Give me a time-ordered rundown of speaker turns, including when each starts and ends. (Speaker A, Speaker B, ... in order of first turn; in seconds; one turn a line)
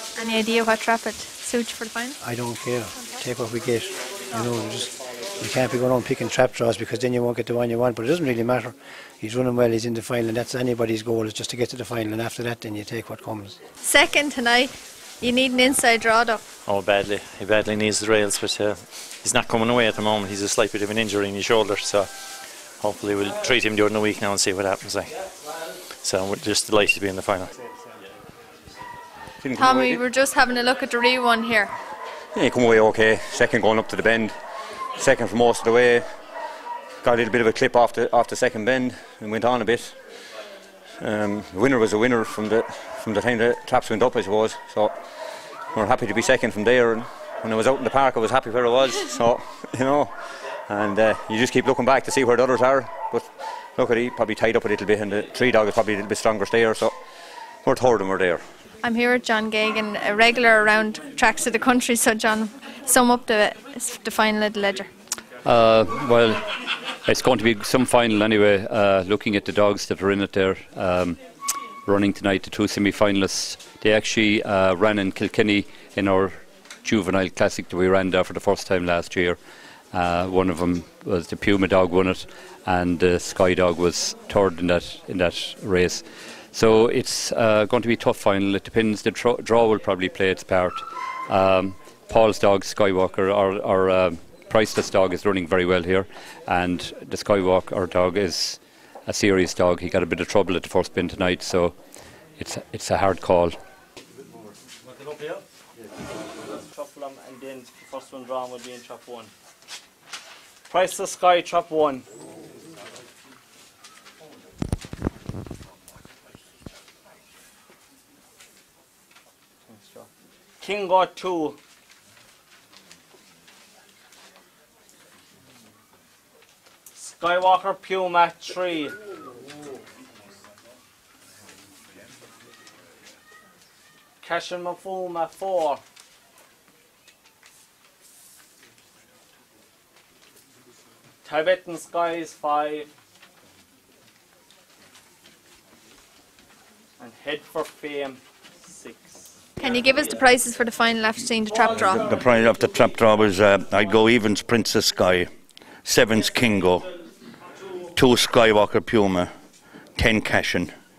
Speaker A: 0.2-2.2
Speaker B: 2.2-13.6
Speaker A: 13.8-16.4
Speaker C: 16.7-22.1
Speaker C: 22.8-25.1
Speaker C: 26.0-27.5
Speaker D: 29.4-30.0
Speaker A: 29.6-31.7
Speaker D: 32.3-34.3
Speaker D: 35.0-36.1
Speaker D: 37.0-40.0
Speaker D: 41.0-44.9
Speaker D: 45.7-50.1
Speaker D: 50.7-56.9
Speaker D: 57.6-58.4
Speaker A: 58.8-64.9
Speaker E: 65.4-66.4
Speaker E: 67.0-71.2
Speaker E: 71.9-79.4
Speaker E: 79.9-101.8
Speaker E: 102.4-103.5
Speaker F: 106.8-109.3
Speaker F: 110.7-112.0
Speaker F: 120.6-121.5
Speaker F: 127.0-128.9
Speaker F: 134.2-135.8
Speaker F: 141.2-142.9
Speaker F: 147.0-148.2
Speaker A: 149.6-152.0
Speaker D: 151.9-154.9
Speaker G: 152.1-155.2
Speaker G: 155.8-156.8
Speaker G: 157.9-159.3
Speaker D: 158.0-159.2
Speaker G: 160.0-160.7
Speaker D: 160.0-160.6